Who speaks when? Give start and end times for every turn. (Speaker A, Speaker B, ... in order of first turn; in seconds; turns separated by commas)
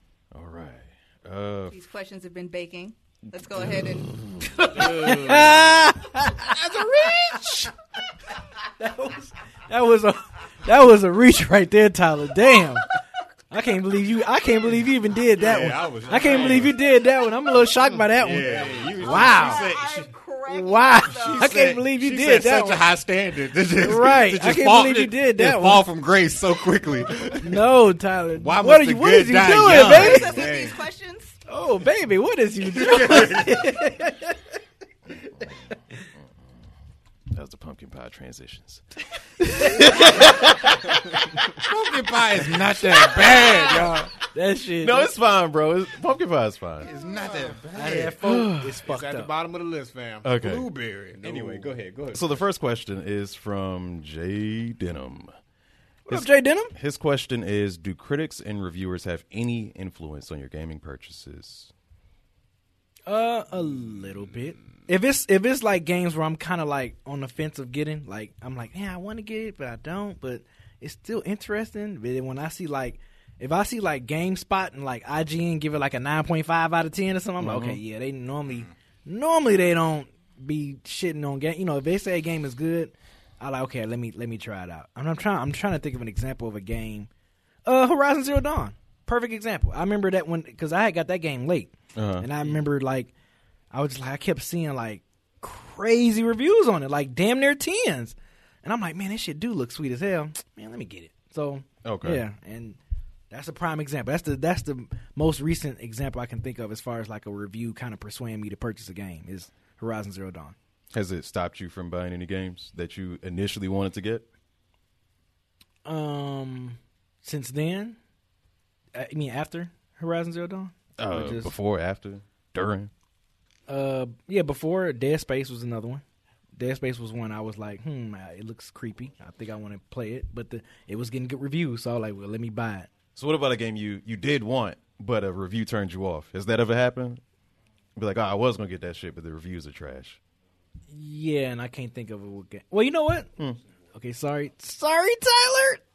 Speaker A: 0.3-1.8, Speaker B: 1.7-4.2, Speaker C: 4.5-7.4, Speaker D: 4.7-5.6, Speaker D: 6.4-7.7, Speaker C: 8.8-12.9, Speaker C: 13.5-19.7, Speaker E: 15.4-16.8, Speaker D: 16.2-16.7, Speaker D: 17.8-19.2, Speaker E: 18.2-20.1, Speaker B: 19.0-21.7, Speaker C: 20.5-22.9, Speaker E: 21.1-27.7, Speaker C: 23.8-25.9, Speaker C: 27.2-30.5, Speaker E: 28.4-30.8, Speaker B: 29.7-31.4, Speaker C: 31.5-34.4, Speaker E: 32.7-33.7, Speaker C: 35.2-36.0, Speaker A: 37.3-38.9, Speaker A: 39.4-41.0, Speaker C: 39.6-39.9, Speaker E: 41.6-44.1, Speaker A: 42.8-43.9, Speaker D: 43.1-43.9, Speaker C: 44.3-45.1, Speaker A: 44.8-46.9, Speaker E: 46.8-48.2, Speaker D: 47.2-47.6, Speaker C: 47.7-49.3, Speaker A: 48.2-48.8, Speaker D: 48.9-50.3, Speaker A: 50.2-50.7, Speaker E: 50.4-52.3, Speaker D: 51.2-51.7, Speaker A: 52.1-55.3, Speaker C: 56.1-56.7, Speaker A: 56.1-61.7, Speaker C: 63.1-87.1, Speaker A: 77.4-77.8, Speaker C: 87.7-93.1, Speaker A: 92.0-92.3, Speaker C: 93.7-102.8, Speaker A: 101.8-102.2, Speaker C: 103.3-110.5, Speaker A: 110.9-114.2, Speaker C: 115.8-118.0, Speaker C: 119.0-121.5, Speaker A: 121.0-122.9, Speaker C: 123.7-126.0, Speaker C: 126.6-132.9, Speaker A: 133.2-137.2, Speaker A: 138.0-140.2, Speaker C: 140.9-143.3, Speaker C: 143.9-145.8